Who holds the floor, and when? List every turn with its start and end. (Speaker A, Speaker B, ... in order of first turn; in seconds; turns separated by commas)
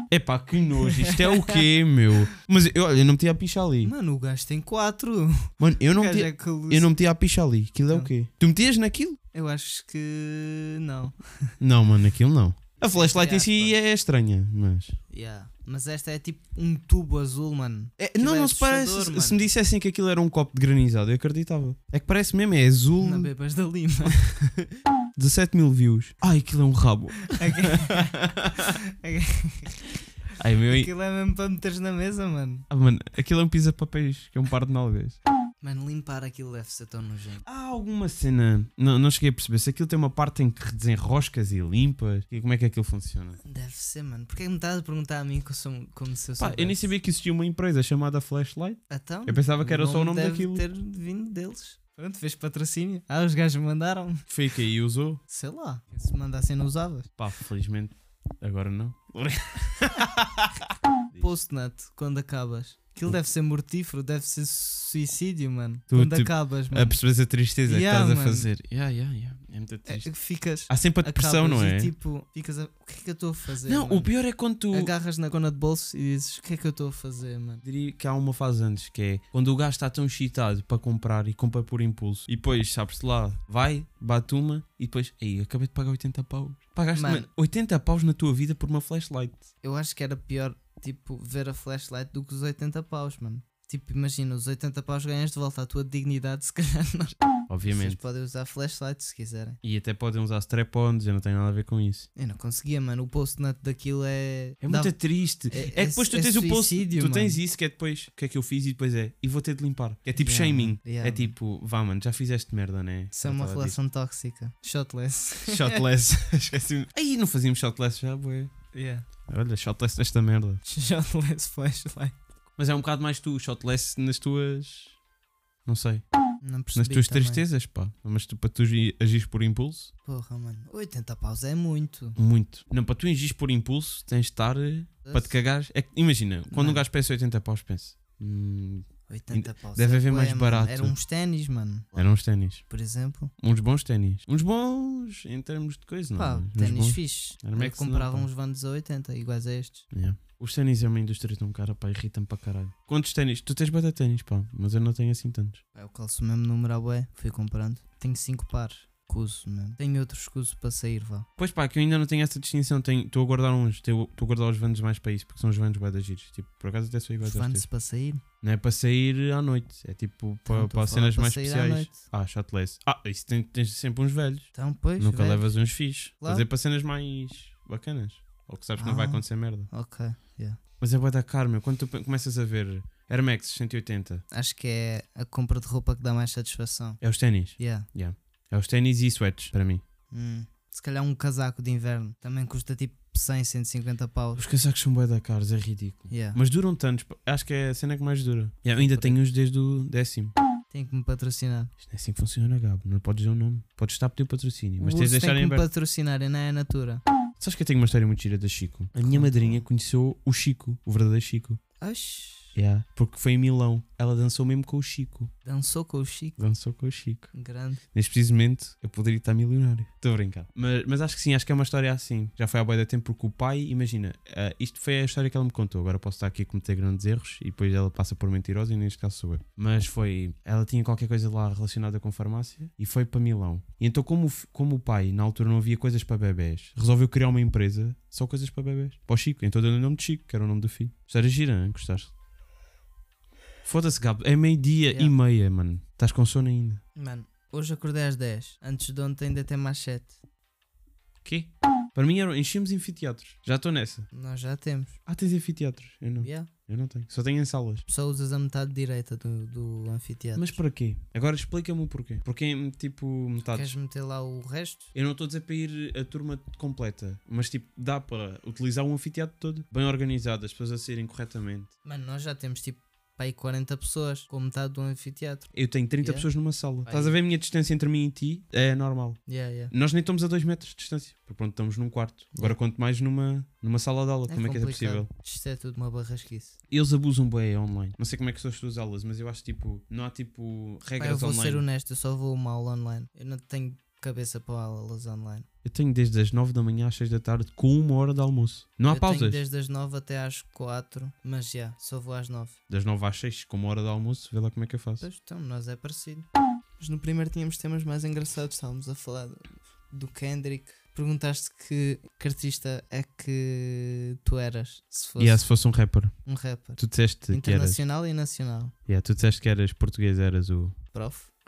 Speaker A: 0.1-3.9, Speaker B: 0.8-1.6, Speaker B: 3.8-6.9, Speaker A: 5.6-9.2, Speaker B: 9.3-11.5, Speaker A: 11.6-15.0, Speaker B: 12.8-13.8, Speaker B: 15.1-19.5, Speaker A: 18.0-23.3, Speaker B: 23.0-24.2, Speaker A: 24.1-28.7, Speaker B: 27.3-30.0, Speaker A: 30.4-30.9, Speaker B: 30.7-32.7, Speaker A: 32.7-35.2, Speaker B: 35.6-37.5, Speaker A: 37.5-43.4, Speaker B: 43.4-46.9, Speaker A: 46.4-50.6, Speaker B: 48.9-54.3, Speaker A: 54.3-55.2, Speaker B: 55.3-57.1, Speaker A: 57.2-61.4, Speaker B: 61.2-67.0, Speaker A: 65.9-70.1, Speaker B: 67.7-68.5, Speaker B: 69.9-74.1, Speaker A: 70.7-71.9, Speaker A: 73.7-74.9, Speaker B: 74.7-77.6, Speaker A: 77.6-89.5, Speaker B: 87.0-87.3, Speaker B: 89.6-99.6, Speaker A: 97.5-98.0, Speaker A: 99.6-102.1, Speaker B: 102.2-107.4, Speaker A: 104.6-113.8, Speaker B: 110.2-111.3, Speaker B: 113.1-115.8, Speaker A: 115.5-118.5, Speaker B: 118.7-119.1, Speaker A: 119.3-120.6, Speaker B: 120.7-122.2, Speaker A: 122.6-125.0, Speaker A: 125.7-126.0, Speaker B: 126.4-127.5, Speaker A: 126.8-129.9, Speaker B: 130.0-132.2, Speaker A: 132.2-140.9, Speaker B: 135.1-135.4, Speaker B: 136.5-136.9, Speaker B: 139.1-142.1, Speaker A: 141.9-142.6, Speaker B: 142.7-143.3, Speaker A: 143.4-148.3, Speaker B: 146.2-149.9, Speaker A: 149.9-155.6, Speaker B: 155.7-161.3, Speaker A: 161.4-167.6, Speaker B: 167.2-168.2, Speaker A: 168.4-179.7, Speaker B: 170.5-172.0, Speaker B: 174.5-175.6, Speaker B: 176.2-176.5, Speaker B: 178.8-180.6, Speaker A: 180.8-184.2, Speaker B: 184.3-187.0, Speaker A: 187.0-189.8, Speaker B: 187.6-187.9, Speaker B: 190.1-194.5, Speaker A: 194.4-200.3, Speaker B: 196.1-196.4, Speaker B: 198.8-199.2, Speaker B: 200.7-201.7, Speaker A: 201.8-205.7, Speaker B: 204.8-207.0, Speaker A: 207.4-211.6, Speaker B: 209.0-209.6, Speaker B: 211.8-212.5, Speaker A: 212.6-215.3, Speaker B: 215.4-216.4, Speaker A: 216.4-217.3, Speaker B: 217.3-217.8, Speaker A: 217.9-242.1, Speaker A: 243.6-246.8, Speaker B: 247.0-250.2, Speaker A: 251.2-254.1, Speaker B: 254.1-255.0, Speaker A: 255.1-257.9, Speaker B: 256.2-256.5, Speaker B: 257.9-260.6, Speaker A: 260.4-263.8, Speaker B: 263.4-264.9, Speaker A: 264.9-271.7, Speaker B: 271.8-276.3, Speaker A: 275.5-285.1, Speaker B: 276.9-277.2, Speaker B: 279.3-279.7, Speaker B: 284.3-286.6, Speaker A: 286.7-291.6, Speaker B: 291.0-295.5, Speaker A: 295.6-299.4, Speaker B: 298.9-302.6, Speaker A: 302.7-305.1, Speaker B: 305.0-306.3, Speaker B: 306.8-315.5, Speaker A: 315.2-316.1, Speaker B: 316.3-318.7, Speaker A: 316.8-317.8, Speaker A: 318.9-320.8, Speaker B: 320.9-321.3